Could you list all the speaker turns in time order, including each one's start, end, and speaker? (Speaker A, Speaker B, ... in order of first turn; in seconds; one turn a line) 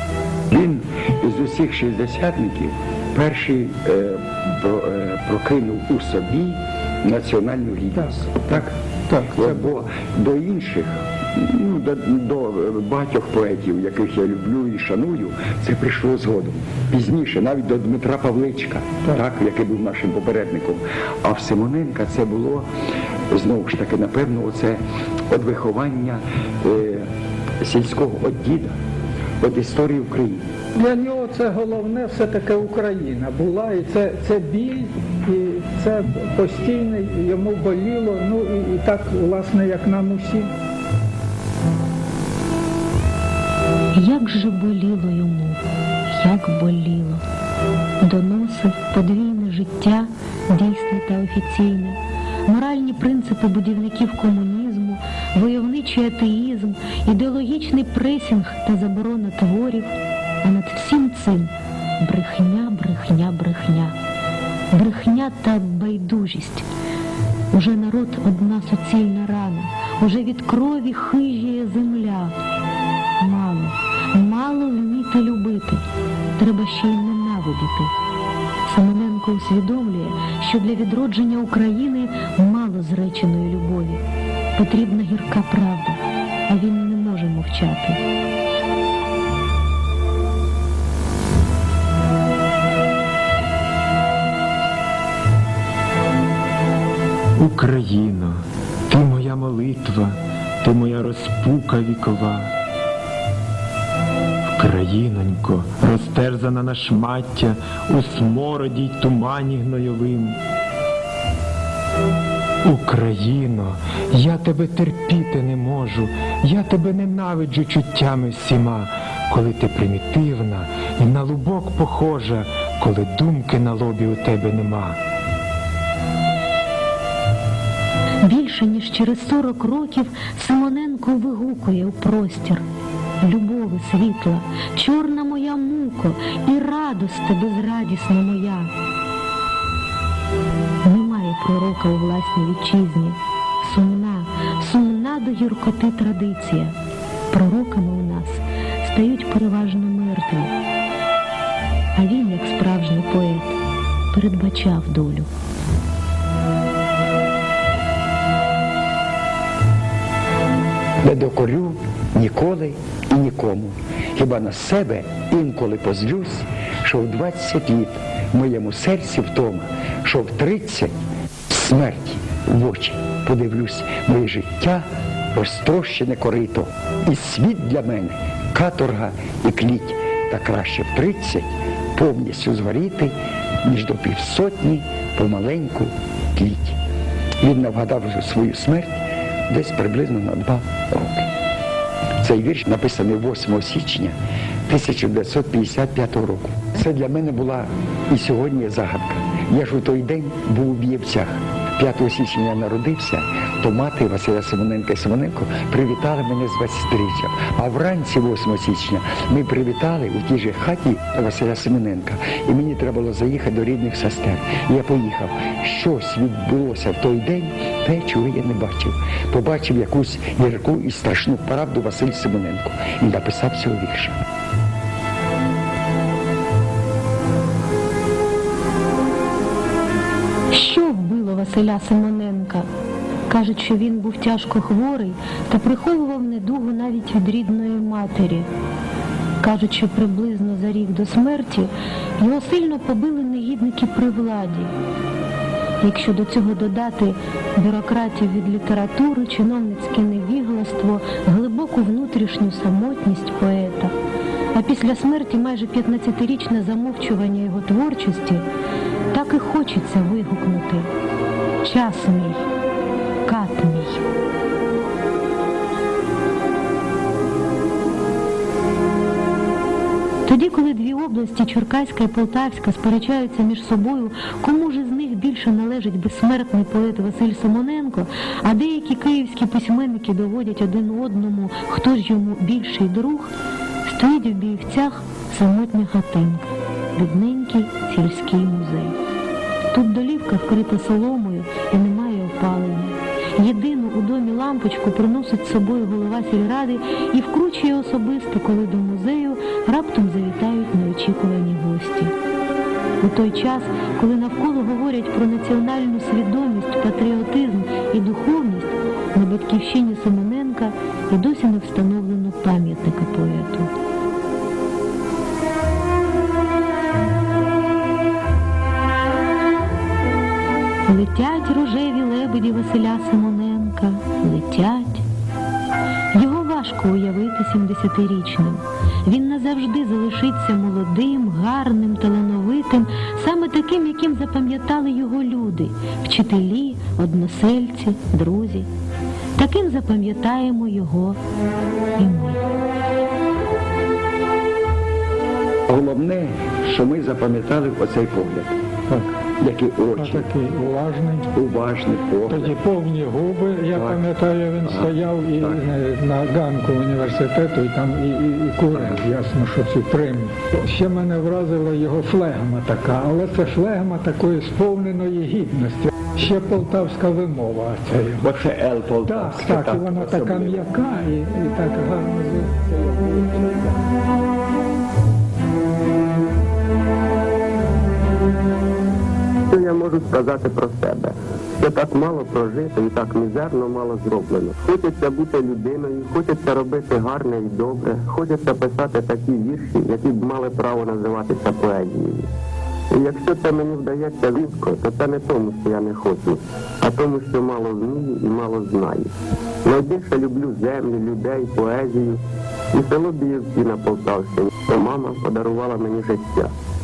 Speaker A: 0.5-8.7
Speaker B: 8.0-9.7
Speaker A: 9.3-22.7
Speaker A: 23.3-27.1
Speaker A: 27.6-28.8
Speaker A: 29.4-30.5
Speaker B: 30.7-40.5
Speaker C: 43.9-47.2
Speaker C: 48.0-64.0
Speaker C: 64.7-66.7
Speaker C: 67.5-72.3
Speaker C: 73.2-75.8
Speaker C: 76.4-77.9
Speaker C: 78.6-84.0
Speaker C: 84.5-88.0
Speaker D: 97.4-102.5
Speaker D: 104.5-110.4
Speaker D: 112.6-125.0
Speaker C: 128.2-132.6
Speaker C: 133.2-138.7
Speaker C: 140.8-146.8
Speaker C: 147.3-150.5
Speaker C: 151.9-153.6
Speaker C: 154.1-155.3
Speaker A: 161.0-170.9
Speaker A: 171.5-186.8
Speaker A: 187.4-191.3
Speaker A: 192.2-194.2
Speaker A: 194.7-224.2
Speaker C: 230.5-232.7
Speaker C: 233.3-238.5
Speaker C: 239.4-244.7
Speaker C: 245.8-253.9
Speaker C: 254.5-258.4
Speaker C: 259.1-260.9
Speaker C: 261.6-262.4
Speaker C: 263.2-264.0
Speaker C: 270.2-283.3
Speaker C: 283.8-288.9
Speaker C: 289.7-302.1
Speaker C: 303.0-313.7
Speaker C: 320.9-325.0
Speaker C: 326.1-338.7
Speaker C: 339.4-341.2
Speaker C: 342.0-342.4
Speaker A: 345.7-348.6
Speaker B: 348.9-349.1
Speaker A: 349.4-350.3
Speaker B: 349.9-351.3
Speaker A: 351.3-352.5
Speaker B: 352.3-368.5
Speaker A: 353.7-354.0
Speaker A: 354.6-355.6
Speaker A: 358.7-359.0
Speaker A: 368.2-370.7
Speaker B: 369.0-373.7
Speaker E: 379.5-392.3
Speaker E: 392.9-399.1
Speaker E: 399.6-402.2
Speaker E: 402.7-406.5